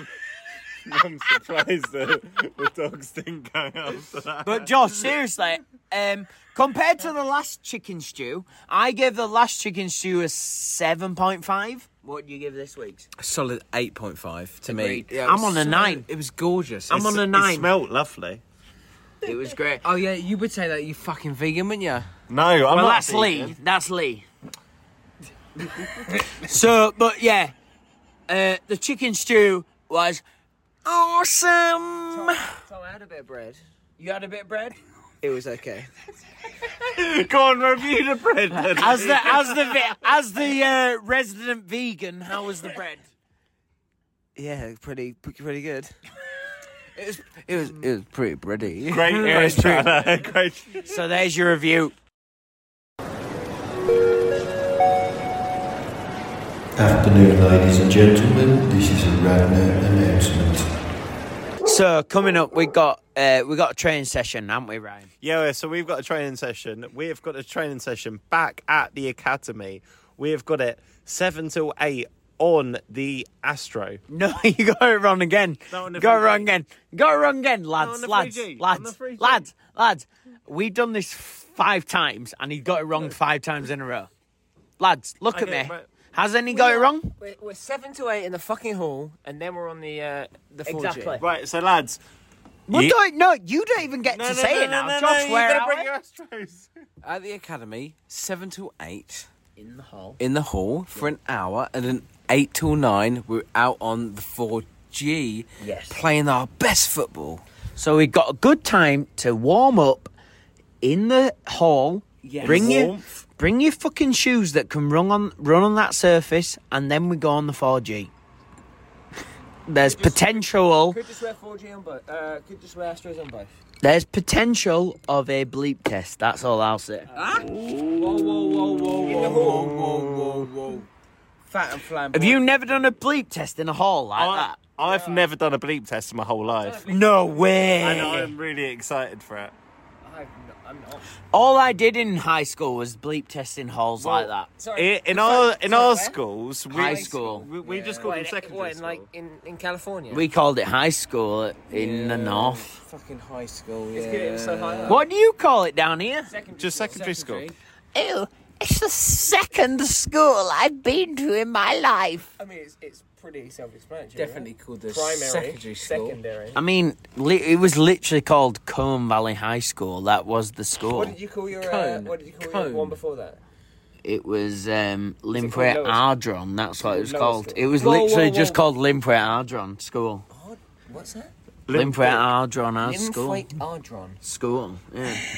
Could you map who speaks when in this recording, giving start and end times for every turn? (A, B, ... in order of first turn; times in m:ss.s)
0:00.8-0:05.2 A
0:04.4-0:13.1 B
0:13.2-0:17.1 C
0:14.7-0:16.1 B
0:16.9-0:17.7 B
0:16.9-0:18.4 A
0:19.2-0:19.8 B
0:19.8-0:22.1 C
0:22.3-0:23.6 A
0:22.7-0:24.2 B
0:26.3-0:27.5 B
0:28.3-0:30.2 B
0:30.8-0:32.4 B
0:32.1-0:33.6 D
0:34.0-0:34.8 B
0:35.2-0:35.9 C
0:36.9-0:40.0 A
0:38.7-0:43.1 B
0:44.4-0:45.9 C
0:47.0-0:49.5 C
0:48.9-0:51.0 A
0:49.1-0:50.1 B
0:50.8-0:52.0 B
0:56.8-1:00.7 E
1:01.6-1:05.1 B
1:05.2-1:14.0 A
1:14.1-1:24.1 B
1:15.7-1:16.5 A
1:17.8-1:19.5 A
1:24.8-1:27.1 B
1:25.3-1:25.9 A
1:26.5-1:31.2 D
1:30.7-1:31.2 B
1:31.2-1:32.0 A
1:32.7-1:35.9 B
1:32.7-1:33.0 A
1:34.0-1:36.7 A
1:37.0-1:39.3 C
1:39.6-1:40.2 B
1:40.2-1:47.4 C
1:45.6-1:46.0 B
1:47.8-1:50.1 B
1:50.8-1:58.1 B
1:52.2-1:52.7 C
1:52.4-1:53.1 A
1:59.7-2:01.0 B
1:59.8-2:03.5 D
2:03.8-2:07.1 B
2:07.1-2:09.8 D
2:07.1-2:07.5 C
2:07.5-2:08.2 A
2:08.9-2:10.9 C
2:09.0-2:10.4 A
2:11.5-2:12.4 C
2:12.1-2:14.6 B
2:14.2-2:16.8 A
2:14.8-2:15.3 D
2:16.6-2:18.2 D
2:16.9-2:18.3 B
2:17.8-2:19.6 A
2:20.0-2:21.1 D
2:21.3-2:24.5 B
2:24.0-2:26.2 D
2:24.7-2:29.1 A
2:26.7-2:27.5 B
2:26.8-2:27.2 D
2:27.6-2:28.2 C
2:27.9-2:30.3 D
2:30.1-2:32.8 B
2:31.7-2:35.0 C
2:33.9-2:35.0 D
2:34.9-2:36.3 B
2:36.3-2:37.0 D
2:36.6-2:37.5 A
2:36.9-2:37.6 C
2:38.0-2:42.3 B
2:42.4-2:46.6 D
2:44.2-2:46.2 C
2:46.5-2:51.2 B
2:50.9-2:53.4 D
2:51.5-2:53.0 C
2:54.0-3:00.3 B
2:55.3-2:56.0 D
2:56.8-2:58.6 D
3:00.3-3:01.3 D
3:01.7-3:02.3 A
3:01.7-3:03.5 B
3:02.8-3:04.2 D
3:04.2-3:05.2 B